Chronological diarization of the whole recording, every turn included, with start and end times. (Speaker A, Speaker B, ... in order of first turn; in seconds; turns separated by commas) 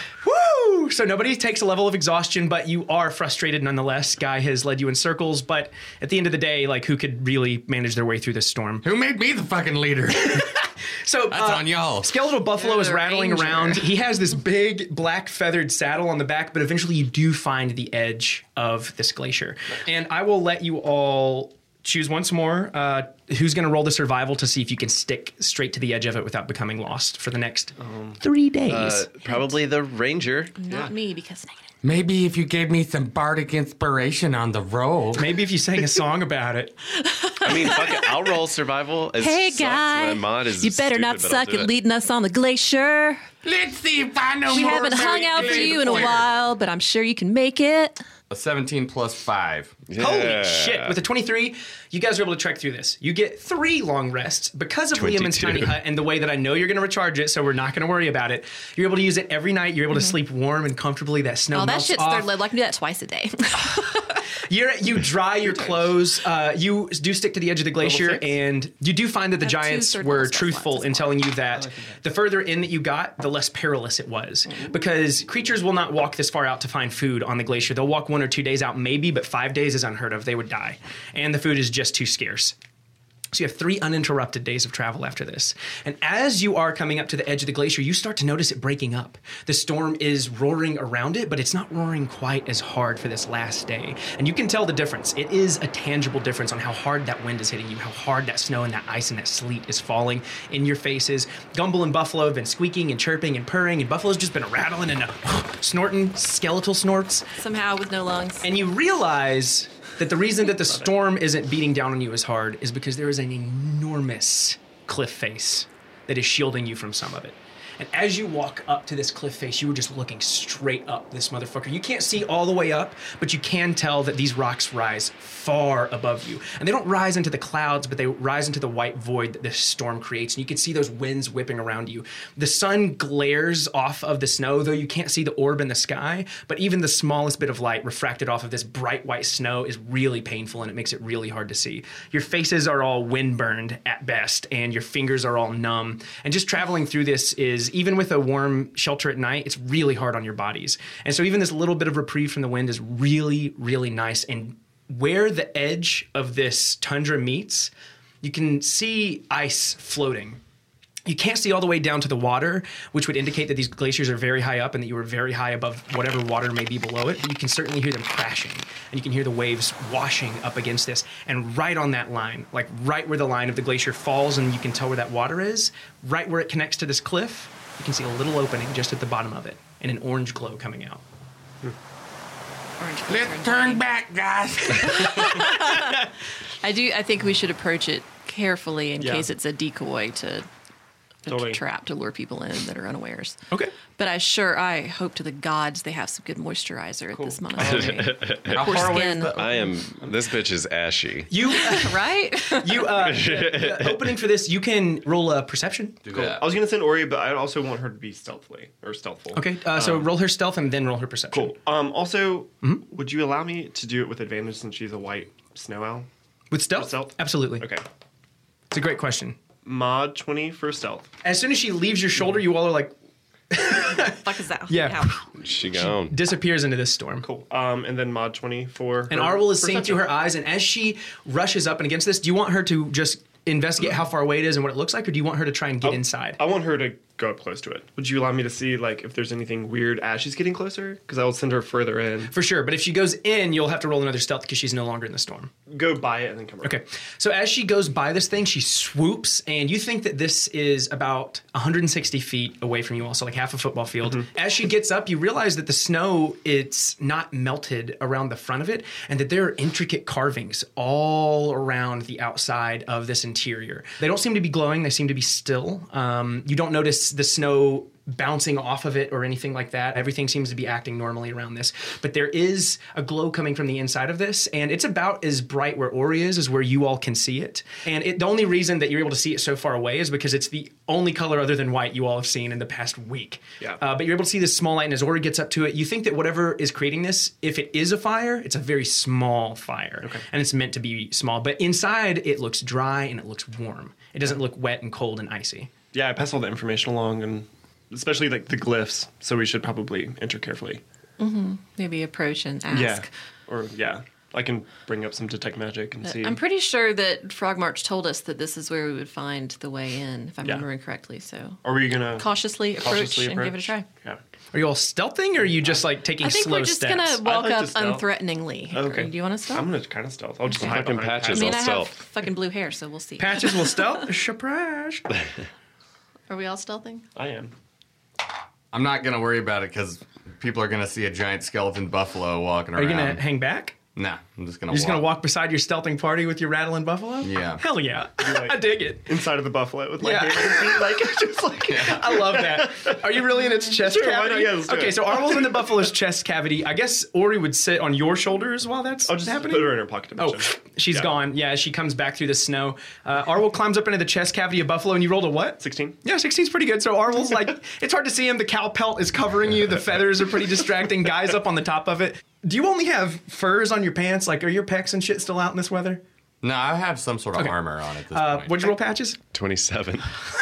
Speaker A: 0.2-8.8, Speaker B: 8.8-10.4, Speaker A: 10.2-29.1, Speaker B: 11.4-11.8, Speaker C: 11.4-12.1, Speaker D: 12.5-13.9, Speaker E: 27.8-28.2, Speaker F: 28.7-30.5, Speaker D: 29.2-29.5, Speaker D: 30.6-31.6, Speaker B: 31.8-35.3, Speaker A: 35.1-36.8, Speaker D: 37.0-38.3, Speaker F: 37.4-41.7, Speaker D: 39.2-43.2, Speaker B: 43.4-46.2, Speaker D: 44.5-48.0, Speaker C: 48.3-49.8, Speaker F: 49.9-51.0, Speaker A: 50.0-62.3, Speaker F: 54.9-55.8, Speaker D: 61.5-64.2, Speaker A: 64.5-82.5, Speaker E: 65.4-65.9, Speaker E: 67.8-68.3, Speaker D: 69.4-71.3, Speaker E: 71.5-72.0, Speaker A: 83.3-107.2, Speaker D: 107.4-108.5, Speaker A: 108.4-157.7, Speaker A: 158.2-160.4, Speaker A: 161.1-181.0, Speaker D: 182.8-183.8, Speaker B: 183.1-185.4, Speaker D: 184.7-186.0, Speaker D: 186.6-190.5, Speaker E: 189.0-189.2, Speaker D: 191.2-193.4, Speaker E: 191.2-191.6, Speaker D: 194.0-199.3, Speaker E: 197.1-198.0, Speaker F: 197.6-201.3, Speaker C: 198.5-199.5, Speaker A: 201.3-206.0, Speaker D: 201.5-202.9, Speaker F: 202.9-204.1, Speaker C: 206.0-206.5, Speaker E: 206.1-210.1, Speaker A: 209.3-211.5, Speaker E: 211.3-216.1, Speaker A: 216.5-217.7, Speaker E: 216.8-217.8, Speaker A: 218.7-219.4, Speaker E: 219.6-221.1, Speaker A: 221.2-222.9, Speaker A: 223.5-227.2, Speaker D: 223.8-225.2, Speaker F: 225.4-226.2, Speaker E: 227.2-230.1, Speaker A: 229.1-236.4, Speaker E: 235.8-242.3, Speaker A: 242.3-245.5, Speaker E: 245.7-246.8, Speaker A: 246.6-295.7, Speaker E: 295.9-300.8, Speaker D: 301.2-303.1, Speaker E: 302.7-306.4, Speaker D: 306.0-311.6, Speaker E: 311.6-314.2, Speaker D: 312.1-313.9, Speaker A: 314.5-317.2, Speaker D: 316.2-319.7, Speaker E: 317.2-318.1, Speaker E: 318.7-321.6, Speaker F: 320.6-322.0, Speaker D: 321.3-323.9, Speaker A: 323.2-325.1, Speaker D: 326.3-327.0, Speaker E: 327.1-327.5, Speaker C: 328.7-333.2, Speaker A: 332.8-333.8, Speaker C: 333.9-335.1, Speaker A: 334.7-339.1, Speaker C: 337.2-337.6, Speaker E: 338.2-345.9, Speaker A: 340.0-366.0, Speaker E: 349.1-351.1, Speaker E: 355.6-356.0, Speaker C: 366.4-368.7, Speaker A: 368.1-369.2, Speaker F: 369.3-370.1